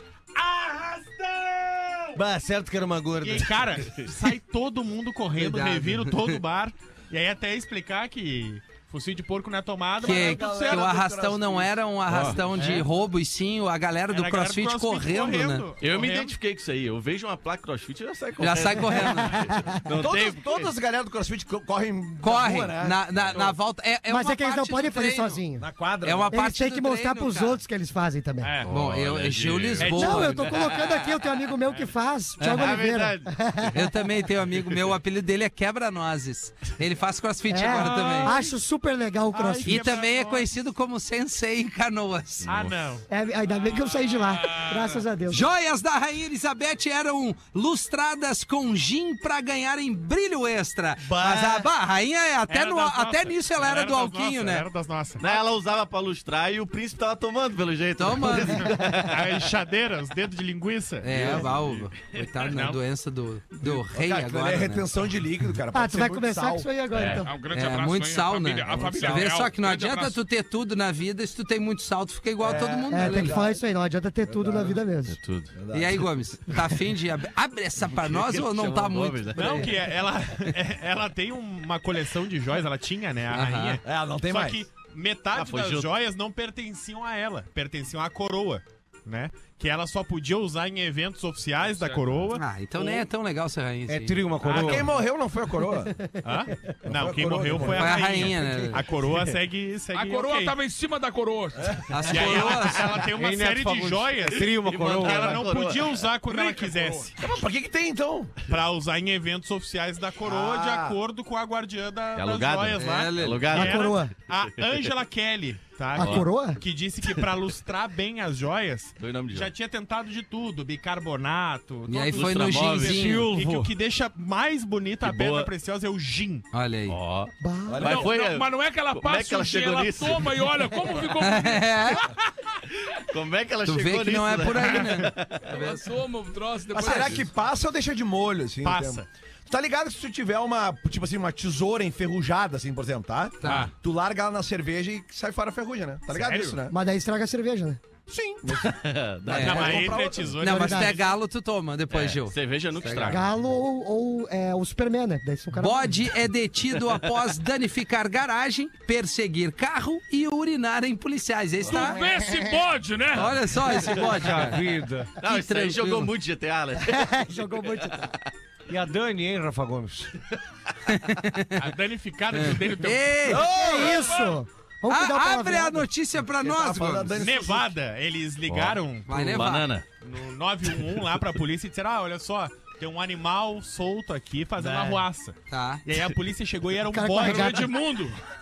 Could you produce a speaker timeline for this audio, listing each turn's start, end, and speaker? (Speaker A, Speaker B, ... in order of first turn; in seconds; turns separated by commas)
Speaker A: 0.3-2.2, Speaker B: 2.2-3.9, Speaker A: 3.2-10.9, Speaker C: 5.4-6.3, Speaker D: 10.0-11.8, Speaker C: 10.0-15.7, Speaker E: 12.1-12.6, Speaker A: 12.6-12.9, Speaker A: 14.1-16.3, Speaker E: 15.8-20.7, Speaker C: 18.4-19.6, Speaker F: 19.0-19.5, Speaker D: 20.0-23.2, Speaker C: 22.2-25.4, Speaker F: 24.1-25.7, Speaker D: 25.6-26.3, Speaker C: 26.0-27.6, Speaker F: 26.3-28.6, Speaker A: 28.4-28.7, Speaker E: 28.6-30.2, Speaker C: 28.7-30.9, Speaker A: 29.8-30.5, Speaker F: 29.9-33.8, Speaker C: 32.4-32.8, Speaker E: 32.5-33.8, Speaker C: 33.7-38.4, Speaker E: 34.6-34.9, Speaker F: 37.5-39.9, Speaker A: 37.7-38.5, Speaker A: 39.3-40.5, Speaker C: 39.6-42.5, Speaker E: 42.5-42.8, Speaker A: 42.5-43.0, Speaker F: 43.1-45.5, Speaker C: 45.3-54.7, Speaker A: 52.5-55.2, Speaker E: 55.2-59.4, Speaker C: 58.0-58.8, Speaker A: 58.6-61.8, Speaker C: 61.0-64.9, Speaker E: 61.1-62.2, Speaker A: 62.4-62.8, Speaker D: 63.6-66.7, Speaker F: 65.7-67.3, Speaker E: 66.9-67.3, Speaker G: 67.2-70.2, Speaker C: 67.5-73.4, Speaker E: 68.7-69.2, Speaker D: 72.4-73.5, Speaker F: 72.9-75.2, Speaker D: 74.3-74.8, Speaker E: 75.1-75.5, Speaker D: 75.5-76.1, Speaker C: 75.7-79.7, Speaker E: 77.9-79.8, Speaker A: 79.3-92.5, Speaker C: 83.3-83.8, Speaker D: 83.8-84.6, Speaker E: 85.3-85.9, Speaker C: 92.3-94.4, Speaker B: 93.9-94.9, Speaker A: 94.4-94.8, Speaker D: 94.5-96.0, Speaker A: 96.2-100.5, Speaker D: 96.8-98.2, Speaker C: 97.7-98.9, Speaker G: 99.9-102.4, Speaker C: 101.9-102.9, Speaker A: 102.1-107.1, Speaker B: 103.0-105.5, Speaker E: 104.3-106.1, Speaker G: 106.2-107.1, Speaker D: 107.2-108.4, Speaker A: 108.5-126.5, Speaker D: 110.2-111.0, Speaker E: 112.2-114.9, Speaker C: 112.8-113.7, Speaker F: 113.5-114.1, Speaker F: 116.0-116.6, Speaker E: 116.0-116.2, Speaker E: 119.0-119.5, Speaker C: 121.9-123.3, Speaker E: 122.1-123.0, Speaker B: 122.8-123.7, Speaker E: 125.0-125.5, Speaker C: 126.5-127.0, Speaker E: 126.9-131.0, Speaker F: 127.4-127.9, Speaker D: 127.7-128.1, Speaker G: 127.8-132.1, Speaker C: 131.2-132.1, Speaker E: 133.0-135.5, Speaker C: 133.7-135.9, Speaker G: 135.5-137.3, Speaker D: 136.7-146.7, Speaker A: 138.6-139.1, Speaker C: 143.4-143.7, Speaker A: 143.4-143.7, Speaker A: 146.1-146.6, Speaker F: 146.7-147.8, Speaker D: 148.1-148.8, Speaker E: 148.5-150.3, Speaker C: 149.3-153.2, Speaker A: 149.3-151.2, Speaker D: 149.8-150.2, Speaker F: 150.4-151.0, Speaker E: 151.9-153.2, Speaker F: 153.1-156.0, Speaker C: 155.5-162.0, Speaker G: 161.6-163.7, Speaker C: 163.1-164.6, Speaker B: 163.9-165.1, Speaker C: 165.2-166.1, Speaker E: 165.2-168.2, Speaker F: 166.9-168.1, Speaker B: 168.7-170.1, Speaker C: 170.9-171.7, Speaker A: 171.6-173.4, Speaker C: 172.3-173.5, Speaker D: 173.3-174.0, Speaker F: 173.4-175.9, Speaker C: 174.9-177.3, Speaker D: 176.4-177.7, Speaker A: 177.2-179.4, Speaker E: 178.5-179.8, Speaker C: 179.1-179.8, Speaker A: 180.0-187.7, Speaker C: 185.5-185.8, Speaker F: 186.9-187.7, Speaker G: 187.2-188.2